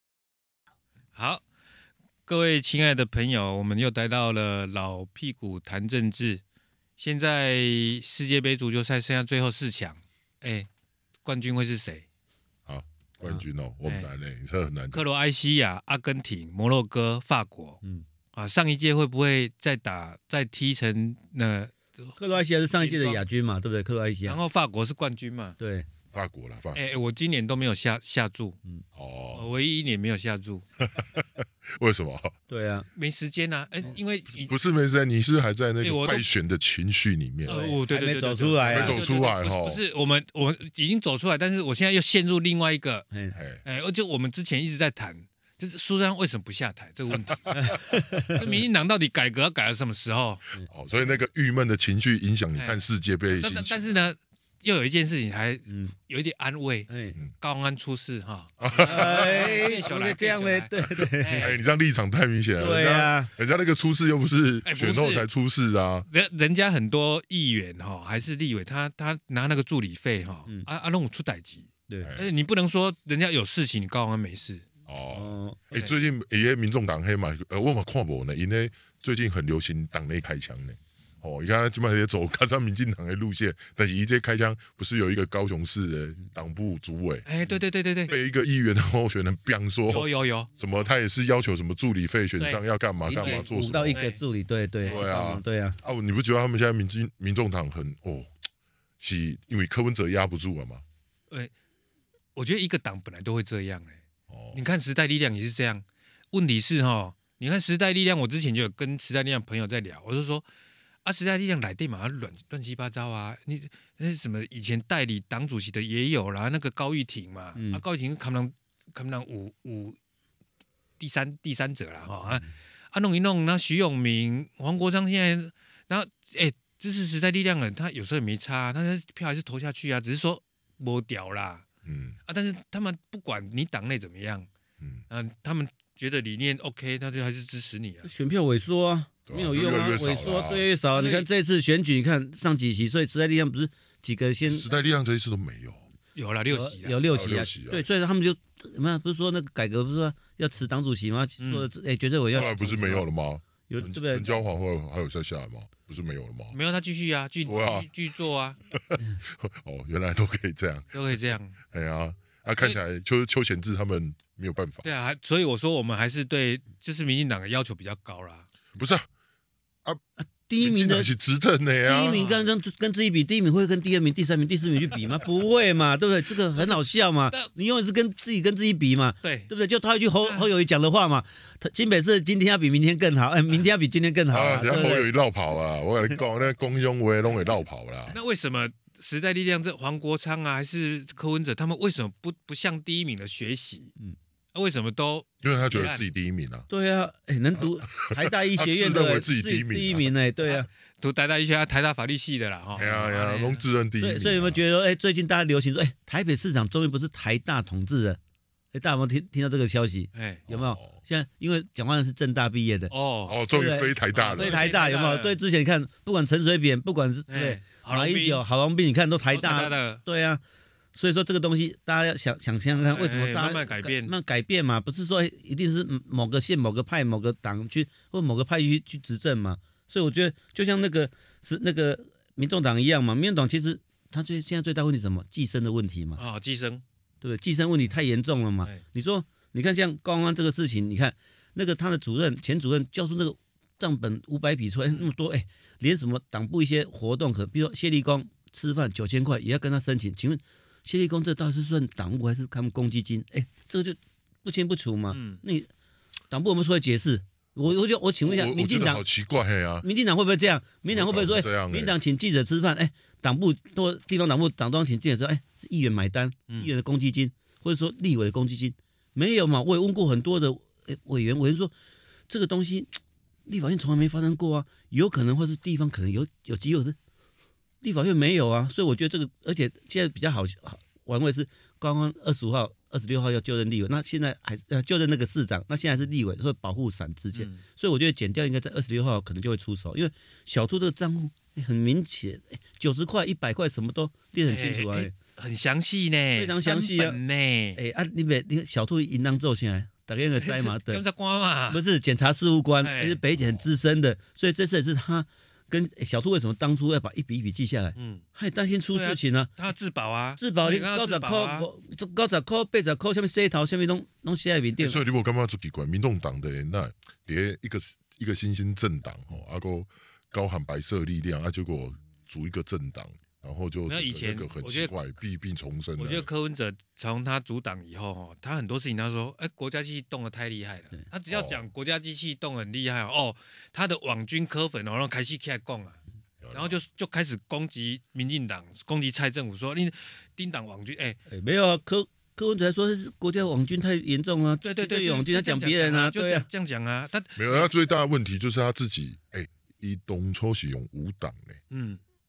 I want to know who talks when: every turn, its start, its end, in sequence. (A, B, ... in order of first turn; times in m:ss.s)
0:01.1-0:01.4 A
0:02.2-0:06.4 A
0:07.0-0:10.7 A
0:11.2-0:12.0 A
0:12.6-0:15.0 B
0:14.9-0:17.8 A
0:18.3-0:22.2 A
0:22.2-0:24.4 C
0:22.7-0:23.2 A
0:24.2-0:25.6 A
0:25.6-0:25.9 C
0:26.1-0:26.8 B
0:26.7-0:28.6 A
0:28.9-0:29.5 B
0:29.3-0:30.6 A
0:30.8-0:32.3 B
0:32.5-0:32.9 C
0:32.9-0:34.5 A
0:34.3-0:37.6 B
0:35.8-0:36.2 A
0:37.4-0:43.0 A
0:37.5-0:39.0 C
0:38.7-0:39.8 B
0:43.1-0:43.4 C
0:43.3-0:43.6 B
0:43.6-0:47.8 A
0:47.1-0:48.2 B
0:47.5-0:48.6 C
0:48.3-0:50.4 A
0:50.7-0:53.9 B
0:52.5-0:52.8 A
0:53.3-0:56.9 A
0:55.7-0:55.9 C
0:56.9-0:57.2 C
0:57.4-1:01.6 A
0:58.6-0:59.7 B
0:58.8-1:01.5 C
1:01.0-1:06.1 B
1:02.6-1:03.3 C
1:04.6-1:05.3 A
1:06.1-1:14.6 A
1:12.0-1:12.3 B
1:14.9-1:27.3 B
1:15.1-1:15.8 C
1:27.2-1:28.1 A
1:28.1-1:34.0 B
1:29.9-1:30.5 A
1:33.1-1:35.8 C
1:33.2-1:34.2 A
1:34.8-1:38.3 B
1:39.0-1:40.8 B
1:42.3-1:44.0 A
1:44.3-1:44.6 B
1:44.5-1:50.4 A
1:51.0-2:00.0 A
1:57.5-1:57.8 C
2:01.0-2:11.6 A
2:11.8-2:12.2 B
2:12.2-2:14.5 A
2:15.1-2:18.1 A
2:18.0-2:24.7 C
2:19.3-2:20.6 B
2:20.9-2:21.3 A
2:24.5-2:25.9 B
2:26.1-2:27.0 A
2:26.5-2:33.1 C
2:27.1-2:27.8 B
2:31.4-2:31.7 A
2:32.3-2:36.6 B
2:33.7-2:34.3 C
2:36.5-2:38.6 A
2:37.5-2:37.9 B
2:38.7-2:41.0 B
2:40.9-2:41.5 A
2:41.7-2:44.9 B
2:44.8-2:48.5 A
2:48.7-2:49.1 B
2:50.2-2:51.1 C
2:50.6-2:52.2 B
2:51.8-3:05.1 C
2:52.1-2:52.5 A
2:59.2-2:59.5 A
3:00.2-3:00.5 A
3:04.3-3:08.2 B
3:08.1-3:13.9 A
3:14.5-3:16.0 A
3:15.4-3:16.7 B
3:16.7-3:20.7 C
3:17.9-3:20.1 B
3:20.4-3:23.6 A
3:22.8-3:24.6 B
3:24.0-3:28.2 C
3:28.7-3:32.9 C
3:30.1-3:30.4 A
3:30.5-3:31.0 B
3:32.9-3:33.4 A
3:33.3-3:34.7 B
3:33.5-3:40.4 C
3:34.1-3:35.4 A
3:37.3-3:38.4 A
3:39.3-3:40.0 A
3:40.9-3:56.2 C
3:42.9-3:44.1 A
3:56.2-3:56.8 A
3:57.2-4:15.7 C
4:15.1-4:15.4 A
4:16.3-4:19.0 C
4:18.2-4:19.8 B
4:19.8-4:31.7 C
4:20.9-4:22.0 B
4:32.3-4:32.9 C
4:33.4-4:37.0 C
4:37.8-4:55.1 C
4:47.3-4:47.6 A
4:54.5-4:57.8 A
4:56.4-4:57.2 C
4:57.7-5:01.0 C
5:00.4-5:01.8 A
5:01.7-5:09.5 C
5:02.8-5:03.2 A
5:08.0-5:08.2 A
5:08.9-5:11.7 A
5:10.4-5:15.0 C
5:14.8-5:26.3 B
5:23.9-5:24.9 A
5:26.0-5:36.0 A
5:31.3-5:31.6 B
5:36.4-5:36.8 B
5:36.5-5:41.2 A
5:41.3-5:46.5 C
5:44.6-5:47.7 A
5:47.4-5:51.6 B
5:51.7-5:52.0 A